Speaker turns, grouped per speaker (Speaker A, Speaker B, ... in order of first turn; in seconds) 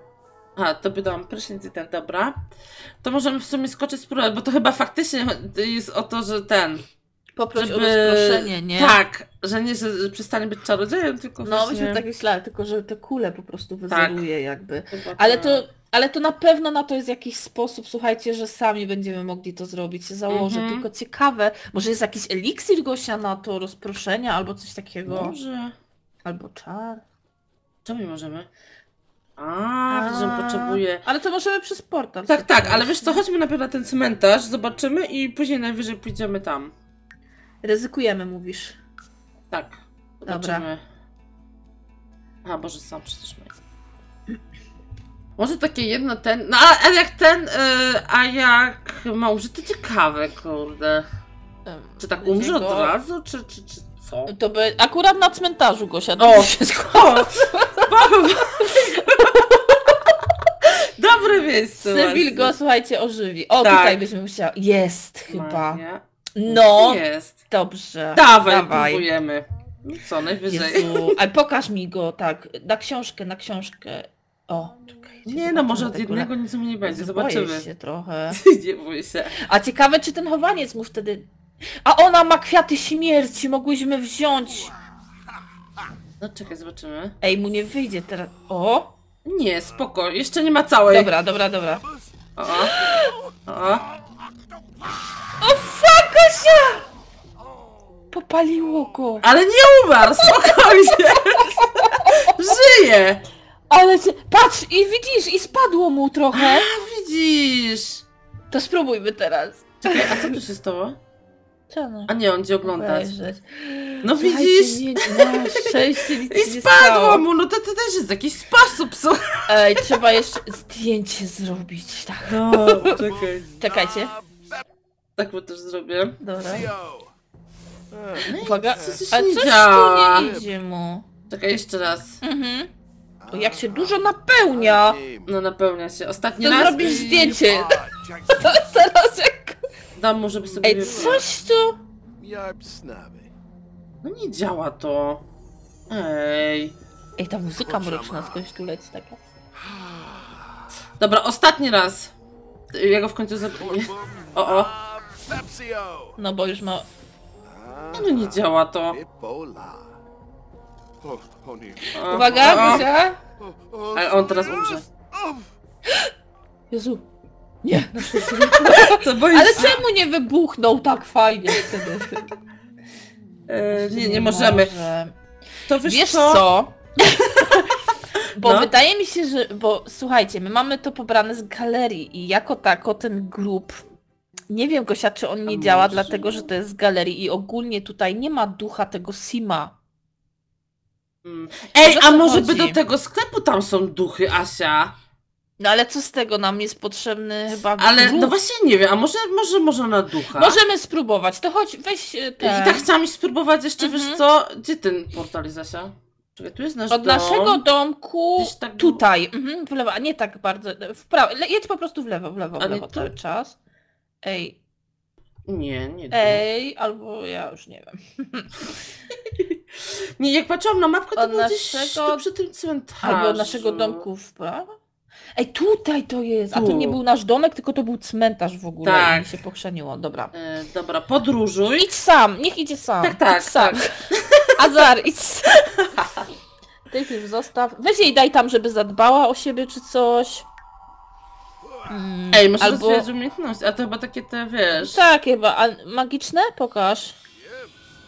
Speaker A: 0.6-2.5, 3.0-6.8, 7.6-12.0, 13.9-14.2, 14.9-15.7, 20.3-20.9, 25.1-25.8, 27.9-28.5, 29.4-31.0, 32.3-36.7, 39.5-40.8, 42.4-43.6, 45.4-51.1, 52.0-54.3, 56.2-59.9, 60.6-62.5, 63.6-64.0, 65.3-67.4, 68.2-71.2, 75.3-77.7, 78.3-79.4, 86.2-87.2, 89.2-91.1, 92.4-92.8, 93.5-93.8, 99.2-103.2, 106.3-108.0, 109.8-111.0, 112.1-113.1, 114.0-120.1, 122.3-123.5, 125.2-126.2, 128.2-130.3, 131.3-132.2, 135.3-137.3, 140.0-141.2, 144.0-145.2, 145.9-146.7, 151.0-152.1, 152.7-154.7, 157.9-159.0, 161.9-162.9, 163.9-164.8, 168.2-169.8, 173.5-174.7, 175.7-176.4, 178.4-178.7, 185.5-186.4, 191.2-194.9, 197.8-200.6, 202.4-207.6, 208.4-209.0, 212.6-213.1, 215.5-216.4, 219.3-224.1, 226.5-227.0, 228.8-229.3, 230.3-231.9, 233.0-234.8, 236.0-236.2, 242.3-245.0
Speaker B: 7.4-9.0, 11.4-25.4, 26.2-27.0, 29.9-33.2, 37.6-38.8, 40.3-40.7, 51.7-52.9, 54.3-57.9, 58.7-59.5, 61.8-65.8, 66.4-69.1, 70.5-76.3, 76.8-78.4, 79.4-81.3, 81.8-84.7, 87.2-88.9, 90.9-91.8, 92.5-93.1, 95.4-96.9, 98.1-99.3, 100.2-102.7, 103.7-106.7, 108.5-110.4, 111.7-112.1, 112.6-117.2, 119.5-123.1, 123.6-124.1, 126.2-126.7, 128.3-131.1, 132.2-132.7, 133.3-135.0, 136.4-139.6, 140.6-141.8, 147.2-149.2, 156.2-156.9, 162.0-163.2, 166.7-167.1, 167.6-172.3, 173.7-175.1, 175.8-177.8, 178.3-183.8, 184.5-189.7, 191.8-192.8, 195.6-198.3, 200.3-202.9, 203.8-204.2, 206.9-213.6, 214.2-214.6, 216.1-218.8, 221.2-222.2, 223.0-224.7, 225.4-230.3, 231.8-235.7, 236.9-240.5, 241.9-243.1, 244.7-247.2
Speaker C: 93.0-94.3, 97.4-97.8, 122.9-124.7, 126.4-127.1, 127.9-129.1, 130.0-130.5, 133.2-135.4, 136.6-138.8, 142.2-143.3, 147.5-148.4, 149.6-150.7, 153.6-156.2, 157.4-160.0, 161.0-165.5, 247.4-247.7